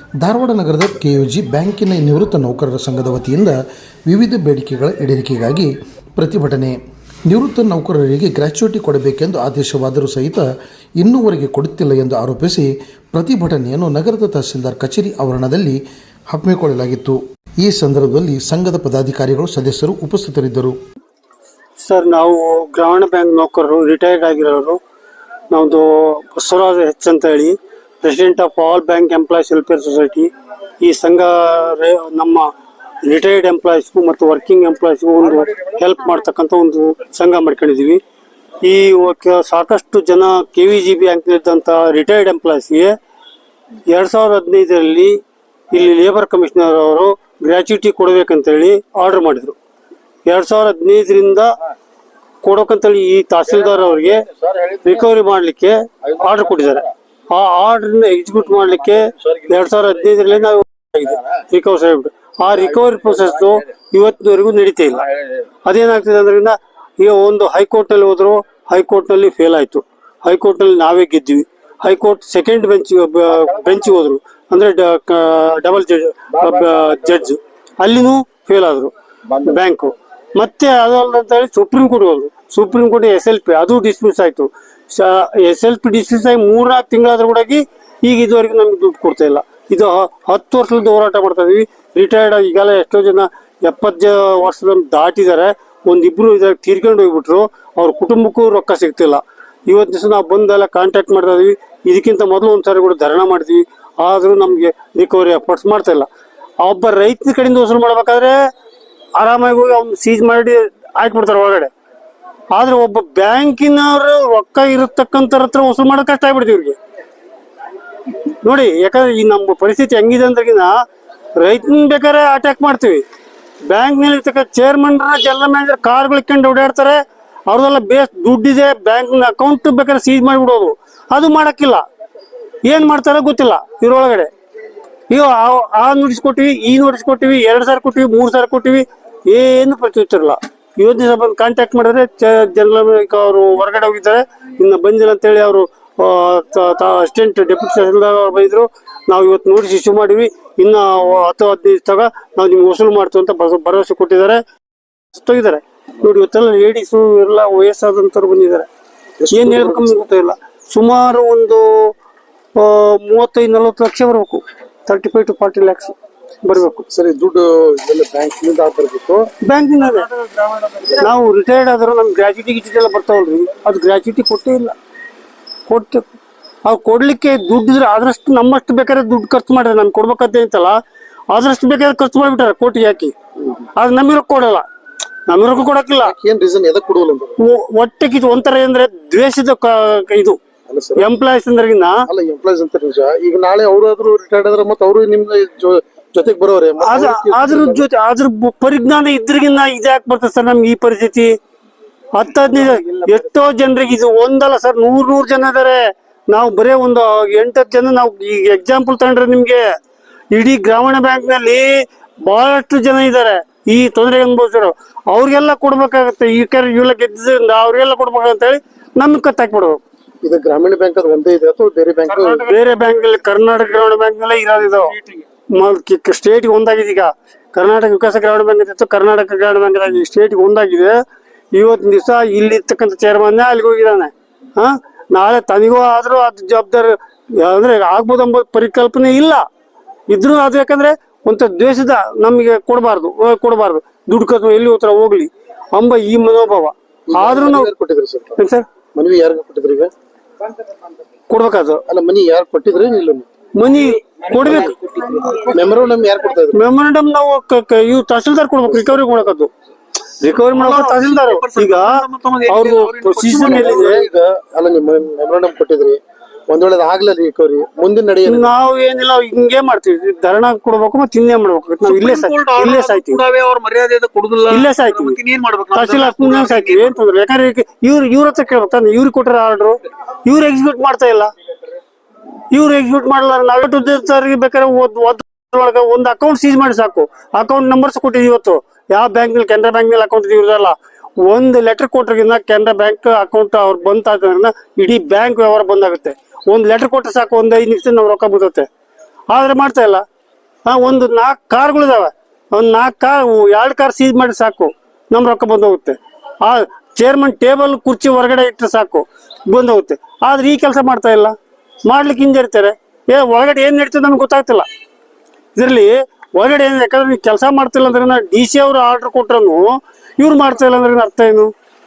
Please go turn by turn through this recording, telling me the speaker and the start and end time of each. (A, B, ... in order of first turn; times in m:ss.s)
0:00.2-0:10.5 A
0:11.0-0:20.8 A
0:21.8-0:24.8 B
0:25.5-0:30.3 B
0:30.8-0:32.5 B
0:33.0-0:38.0 B
0:38.6-0:43.0 B
0:43.9-0:45.2 B
0:45.7-0:49.6 B
0:50.2-0:51.5 B
0:52.4-1:05.1 B
1:05.6-1:46.1 B
1:46.6-1:48.4 B
1:49.2-1:51.7 B
1:52.5-1:56.8 B
1:58.4-2:00.7 B
2:01.4-2:03.0 B
2:03.6-2:11.8 B
2:12.6-2:14.3 B
2:15.1-2:34.4 B
2:35.1-2:38.7 B
2:39.2-2:40.0 C
2:39.3-2:41.9 B
2:42.5-2:46.8 B
2:46.9-2:49.3 C
2:49.4-2:50.1 B
2:50.8-2:54.7 B
2:55.7-2:56.0 B
2:56.6-3:00.8 B
3:01.3-3:03.1 B
3:03.8-3:04.6 B
3:05.3-3:06.1 B
3:06.0-3:07.4 C
3:07.4-3:10.4 B
3:10.7-3:11.0 C
3:11.0-3:12.0 B
3:12.1-3:17.8 C
3:16.8-3:21.3 B
3:22.1-3:29.7 B
3:30.3-3:39.8 B
3:40.2-3:42.5 C
3:42.4-3:44.9 B
3:45.5-3:51.0 B
3:51.5-3:59.4 B
4:00.1-4:07.7 B
4:07.1-4:08.4 C
4:08.4-4:08.6 B
4:08.9-4:09.9 C
4:11.3-4:11.8 B
4:11.9-4:13.3 C
4:13.6-4:15.3 B
4:14.3-4:16.6 C
4:16.5-4:19.5 B
4:20.2-4:24.0 B
4:20.6-4:23.8 D
4:23.3-4:28.5 C
4:28.2-4:33.2 B
4:31.8-4:36.9 D
4:34.5-4:35.2 B
4:35.7-4:41.3 B
4:42.5-4:58.7 B
4:59.3-5:00.0 B
5:00.6-5:14.6 B
5:15.5-5:19.7 B
5:20.2-5:21.5 B